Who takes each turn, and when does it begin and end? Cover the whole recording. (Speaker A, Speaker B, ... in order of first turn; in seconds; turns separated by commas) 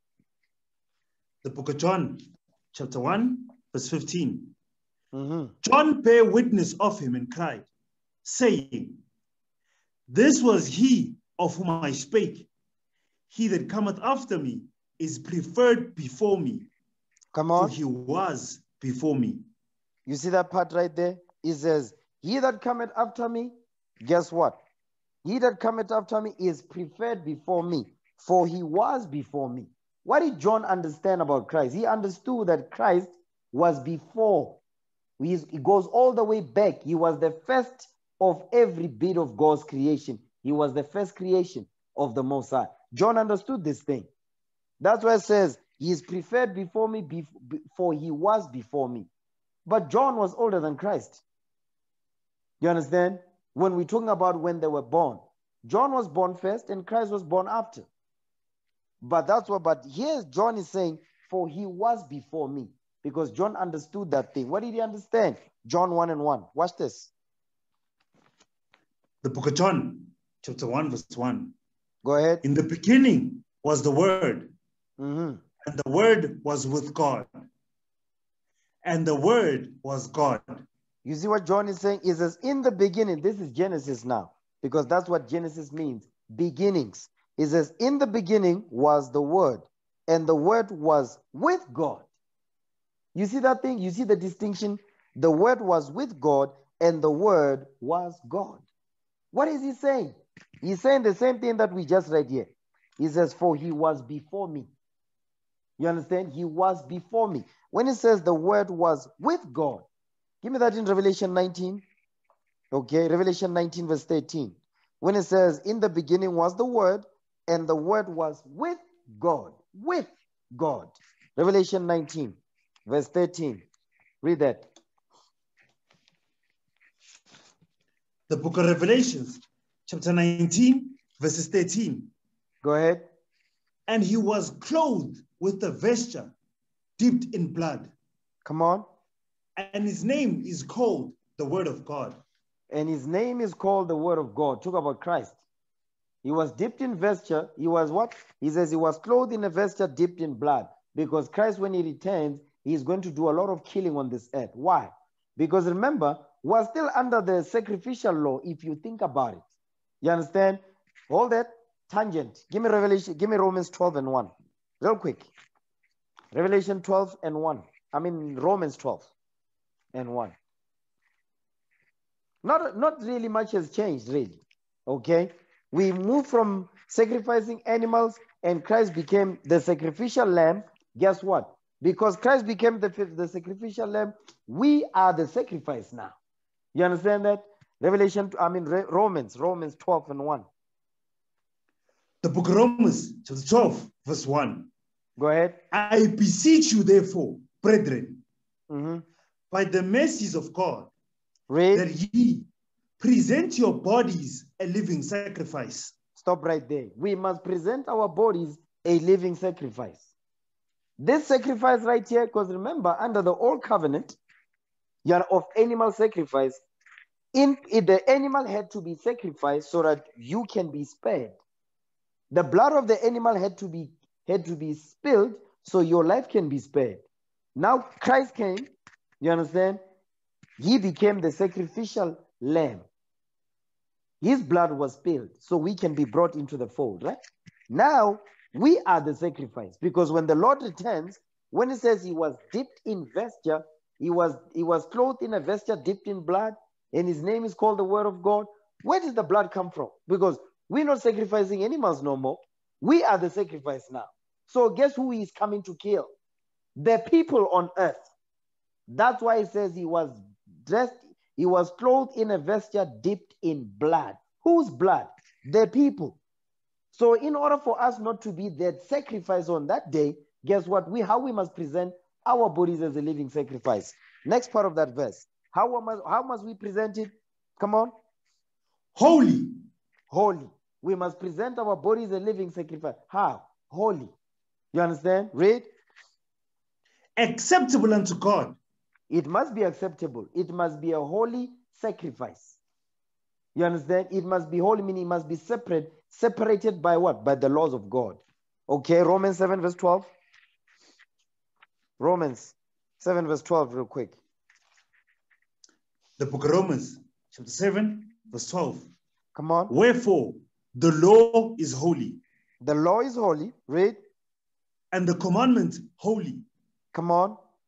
Speaker A: 1.4-4.5, Speaker B: 5.1-5.5, Speaker A: 5.6-7.7, Speaker A: 8.2-9.0, Speaker A: 10.1-12.5, Speaker A: 13.3-16.7, Speaker B: 17.3-17.7, Speaker A: 17.6-19.4, Speaker B: 20.1-24.6, Speaker B: 25.2-34.6, Speaker B: 35.2-44.1, Speaker B: 44.8-49.1, Speaker B: 49.7-51.2, Speaker B: 52.6-57.9, Speaker B: 59.0-67.1, Speaker A: 69.2-71.5, Speaker B: 72.0-72.4, Speaker A: 72.4-74.5, Speaker B: 75.0-75.4, Speaker A: 75.6-77.3, Speaker A: 78.8-80.7, Speaker B: 81.0-92.1, Speaker B: 93.2-98.6, Speaker B: 99.3-104.7, Speaker B: 105.8-109.9, Speaker B: 110.4-111.8, Speaker B: 112.7-123.7, Speaker B: 124.2-124.7, Speaker A: 128.3-132.1, Speaker B: 132.6-133.0, Speaker A: 133.9-136.3, Speaker A: 137.0-137.9, Speaker B: 138.4-138.9, Speaker A: 139.6-142.2, Speaker B: 142.7-145.4, Speaker B: 146.2-159.4, Speaker B: 160.0-165.3, Speaker B: 166.3-169.1, Speaker B: 169.9-170.4, Speaker B: 172.4-186.2, Speaker B: 186.7-190.5, Speaker A: 192.2-194.7, Speaker B: 195.2-195.6, Speaker A: 195.7-198.2, Speaker B: 198.7-199.0, Speaker A: 199.5-200.9, Speaker B: 201.5-201.8, Speaker A: 201.7-202.5, Speaker A: 203.0-205.9, Speaker B: 206.2-210.1, Speaker B: 211.0-214.2, Speaker B: 215.0-216.6, Speaker B: 217.3-221.4, Speaker B: 222.3-227.0, Speaker B: 227.6-229.8, Speaker B: 230.6-232.9, Speaker B: 234.2-237.2, Speaker B: 237.7-256.1, Speaker B: 256.8-258.1, Speaker B: 258.9-266.2, Speaker B: 266.9-277.9, Speaker A: 278.9-279.5, Speaker B: 280.1-284.1, Speaker B: 284.7-285.7, Speaker A: 287.2-288.6, Speaker B: 289.1-292.6, Speaker B: 293.6-300.1, Speaker B: 302.0-304.2, Speaker A: 306.2-308.9, Speaker B: 309.4-309.7, Speaker A: 309.7-312.2, Speaker B: 312.6-314.0, Speaker A: 314.9-316.4, Speaker B: 316.9-317.4